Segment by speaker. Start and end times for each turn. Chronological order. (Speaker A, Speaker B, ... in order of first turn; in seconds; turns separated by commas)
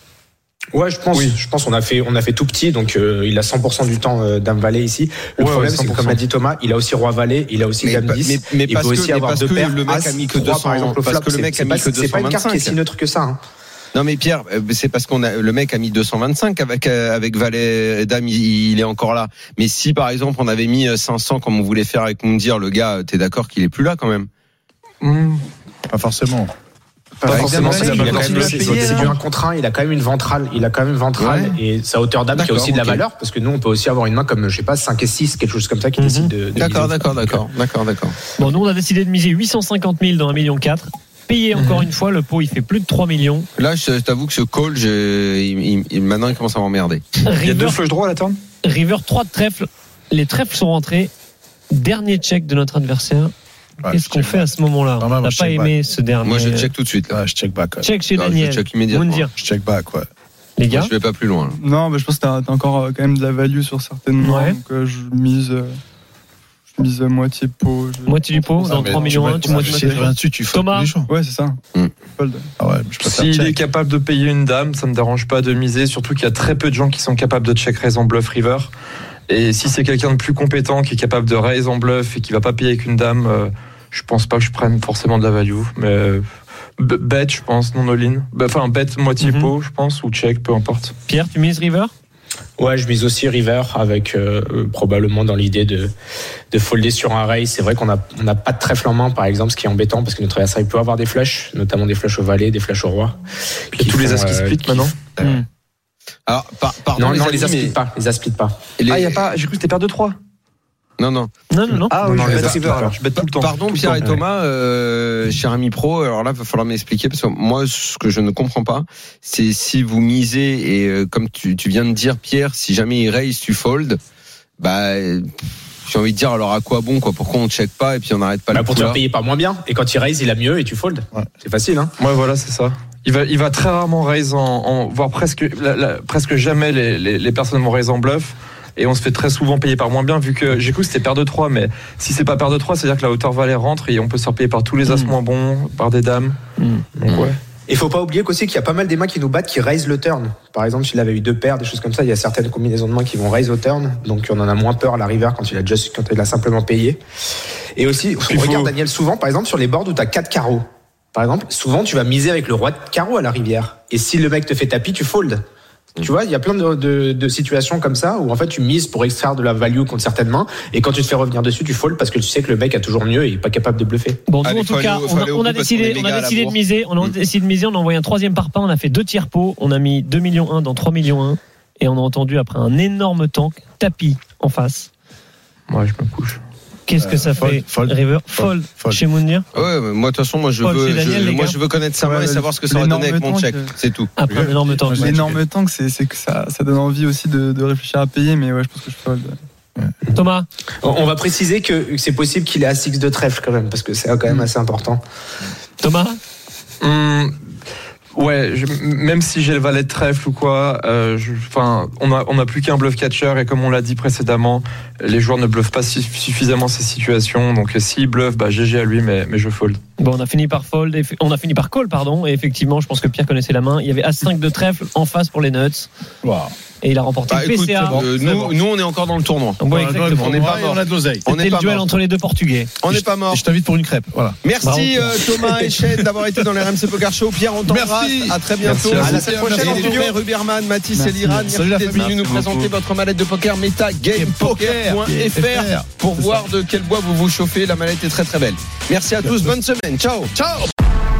Speaker A: 0.7-13.4, Speaker B: 5.4-6.2, Speaker C: 7.8-12.8, Speaker C: 13.9-24.3, Speaker B: 25.0-25.5, Speaker D: 25.9-26.5, Speaker B: 27.3-29.2, Speaker C: 27.3-29.1, Speaker A: 27.3-37.4, Speaker E: 27.9-28.6, Speaker C: 31.2-31.6, Speaker C: 32.4-33.0, Speaker F: 36.0-36.3, Speaker C: 36.6-38.2, Speaker F: 38.4-43.5, Speaker C: 41.6-41.9, Speaker C: 43.6-47.0, Speaker F: 47.3-47.8, Speaker B: 47.3-48.4, Speaker F: 48.6-51.1, Speaker F: 51.7-53.3, Speaker D: 53.8-55.7, Speaker F: 53.9-56.7, Speaker C: 56.2-57.2, Speaker D: 57.1-57.9, Speaker F: 57.8-59.3, Speaker C: 58.2-59.3, Speaker D: 59.3-60.1, Speaker F: 60.6-60.9, Speaker C: 60.7-61.6, Speaker E: 61.5-65.8, Speaker F: 64.2-64.6, Speaker E: 66.7-70.0, Speaker F: 68.1-70.9, Speaker D: 68.6-71.1, Speaker E: 71.1-71.6, Speaker E: 72.2-72.5, Speaker D: 72.6-73.6, Speaker B: 73.0-78.7, Speaker B: 79.3-86.2, Speaker B: 86.8-90.9, Speaker F: 89.2-89.5, Speaker F: 91.1-91.9, Speaker A: 92.6-95.9, Speaker A: 96.5-103.2, Speaker A: 103.7-104.9, Speaker B: 103.8-105.0, Speaker C: 106.3-107.8, Speaker A: 107.0-108.6, Speaker C: 108.8-109.3, Speaker B: 108.9-110.2, Speaker C: 111.0-111.3, Speaker F: 111.5-112.0, Speaker B: 111.9-114.2, Speaker A: 111.9-113.0, Speaker C: 112.3-124.0, Speaker C: 124.6-125.3, Speaker C: 125.9-129.0, Speaker A: 128.5-131.9, Speaker B: 132.0-146.4, Speaker F: 144.8-145.1, Speaker F: 146.6-146.8, Speaker B: 147.0-147.4, Speaker A: 147.1-157.0, Speaker A: 157.8-165.4, Speaker B: 158.2-158.7, Speaker A: 166.0-174.2, Speaker F: 174.3-184.9, Speaker C: 174.4-177.2, Speaker B: 185.7-186.4, Speaker F: 186.9-189.5, Speaker D: 187.0-189.0, Speaker C: 189.5-194.1, Speaker F: 190.6-191.6, Speaker E: 192.0-193.8, Speaker F: 194.2-195.4, Speaker D: 194.3-195.4, Speaker E: 194.9-199.4, Speaker F: 200.1-200.5, Speaker A: 200.8-205.0, Speaker F: 205.8-206.2, Speaker B: 206.8-207.4, Speaker B: 208.2-219.8, Speaker F: 220.0-225.9, Speaker D: 226.2-226.6, Speaker F: 226.8-228.1, Speaker C: 227.3-231.9, Speaker D: 227.9-228.5, Speaker F: 229.6-230.6, Speaker D: 229.7-231.3, Speaker F: 231.3-232.7, Speaker C: 232.8-233.4, Speaker D: 232.9-234.4, Speaker C: 234.4-250.3, Speaker F: 234.6-235.5, Speaker D: 237.7-240.2, Speaker B: 238.6-239.3, Speaker A: 239.0-240.1, Speaker E: 240.9-241.5, Speaker D: 241.4-242.7, Speaker D: 244.2-245.9, Speaker D: 249.2-249.5, Speaker D: 250.3-250.7